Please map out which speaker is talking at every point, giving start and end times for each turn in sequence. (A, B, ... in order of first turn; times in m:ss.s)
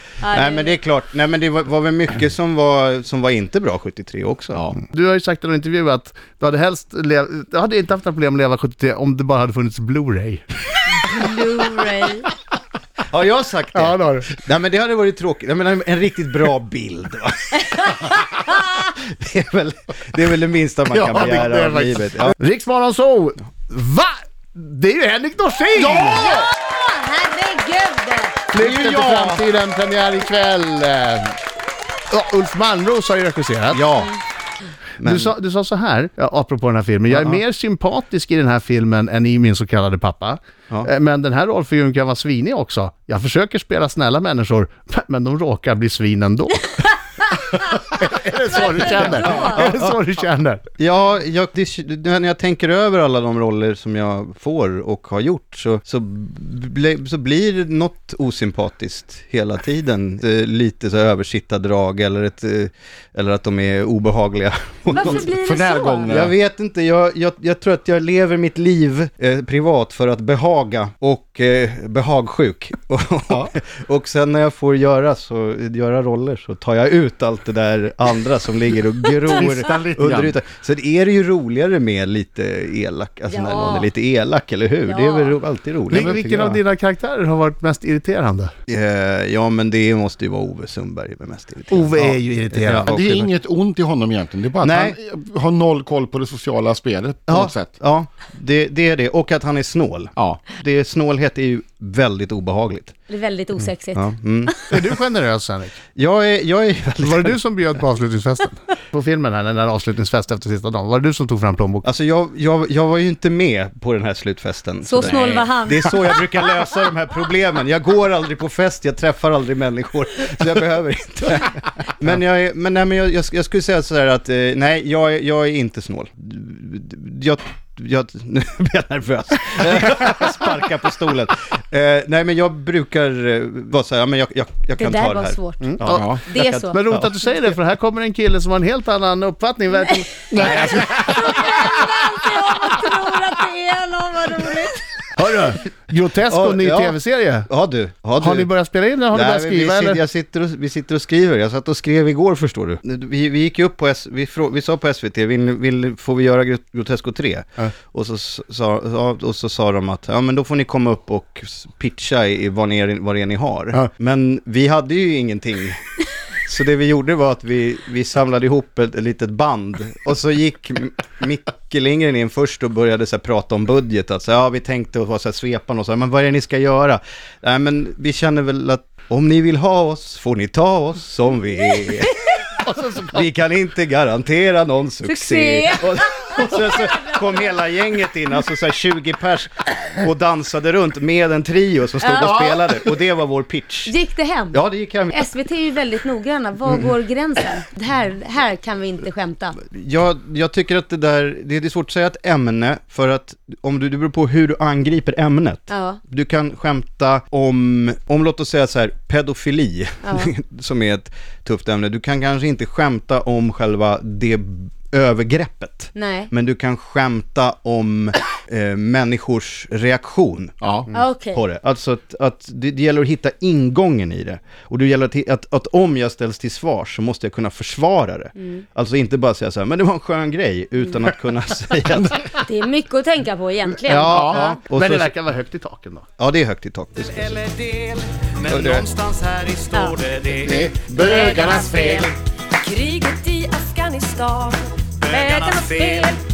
0:00.2-0:00.7 A
0:00.3-0:04.7 B
0:04.8-0:10.4 C
0:10.9-0:12.3 A
0:13.1-0:22.4 B
0:13.8-0:14.3 C
0:17.7-0:18.4 A
0:21.0-0:21.4 D
0:21.1-0:26.2 C
0:25.9-0:26.4 D
0:25.9-0:28.4 A
0:28.5-0:31.4 C
0:28.6-0:29.4 B
0:32.1-0:33.8 C
0:33.7-0:34.2 B
0:35.0-0:35.3 B
0:35.0-0:46.8 C
0:37.1-0:37.4 B
0:47.5-0:50.6 C
0:48.5-0:49.6 A
0:48.8-0:50.0 B
0:50.8-1:05.3 B
1:04.9-1:06.1 A
1:05.0-1:06.3 D
1:06.1-1:26.6 B
1:19.3-1:20.3 D
1:23.3-1:23.9 A
1:24.9-1:25.4 A
1:25.9-1:28.5 C
1:28.7-1:33.3 B
1:31.7-1:33.3 C
1:32.9-1:37.7 D
1:34.6-1:35.0 B
1:37.3-1:43.0 B
1:43.1-1:44.5 A
1:44.0-1:44.8 B
1:44.7-1:45.8 C
1:46.0-1:47.4 B
1:47.0-1:51.8 C
1:51.8-2:17.1 B
1:54.8-1:56.4 A
2:14.8-2:15.6 A
2:15.6-2:21.2 C
2:15.8-2:16.1 D
2:16.3-2:16.8 A
2:20.3-2:21.2 D
2:20.4-2:21.1 B
2:21.1-2:24.9 A
2:25.2-2:27.5 C
2:26.3-2:28.5 B
2:28.2-2:30.0 C
2:29.1-2:45.8 B
2:46.5-3:02.2 B
3:02.7-3:03.2 C
3:03.0-3:13.9 B
3:05.0-3:07.4 A
3:12.0-3:12.4 A
3:12.2-3:12.6 D
3:13.9-3:19.6 A
3:14.5-3:15.3 B
3:16.6-3:17.0 B
3:19.6-3:52.4 B
3:25.7-3:26.0 A
3:30.0-3:30.3 A
3:36.0-3:36.3 A
3:40.6-3:40.9 D
3:40.9-3:41.4 A
3:52.4-3:54.3 A
3:53.8-3:55.1 B
3:54.1-3:54.4 D
3:54.3-3:56.1 C
3:56.2-3:57.5 B
3:57.3-4:01.8 E
3:58.5-3:58.9 B
3:59.7-4:00.0 A
4:00.4-4:02.1 D
4:00.9-4:06.2 A
4:05.0-4:06.2 E